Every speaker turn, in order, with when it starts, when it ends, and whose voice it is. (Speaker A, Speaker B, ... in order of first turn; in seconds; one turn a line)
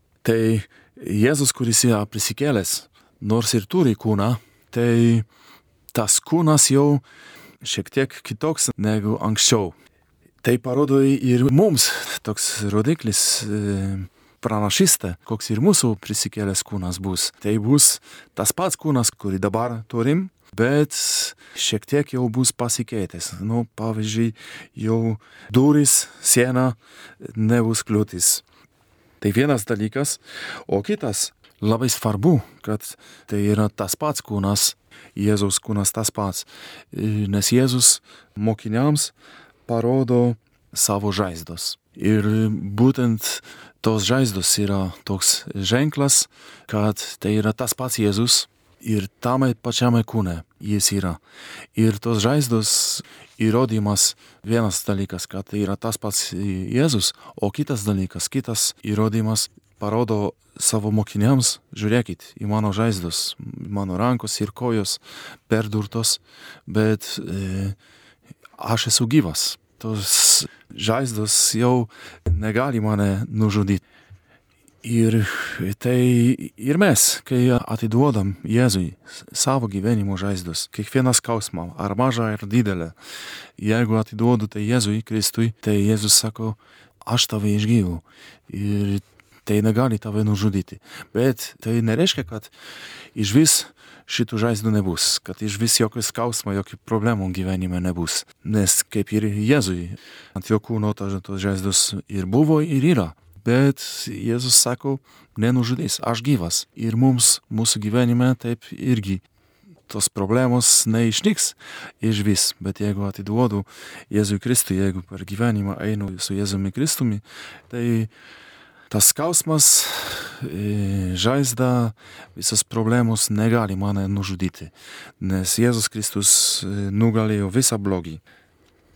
Speaker A: 0.2-5.2
Speaker A: 5.9-7.0
Speaker A: 7.6-9.7
Speaker A: 10.4-28.4
Speaker A: 29.2-39.1
Speaker A: 39.7-51.2
Speaker A: 51.7-67.8
Speaker A: 68.6-73.8
Speaker A: 74.8-82.9
Speaker A: 83.6-92.5
Speaker A: 93.1-109.2
Speaker A: 109.9-118.1
Speaker A: 118.9-128.2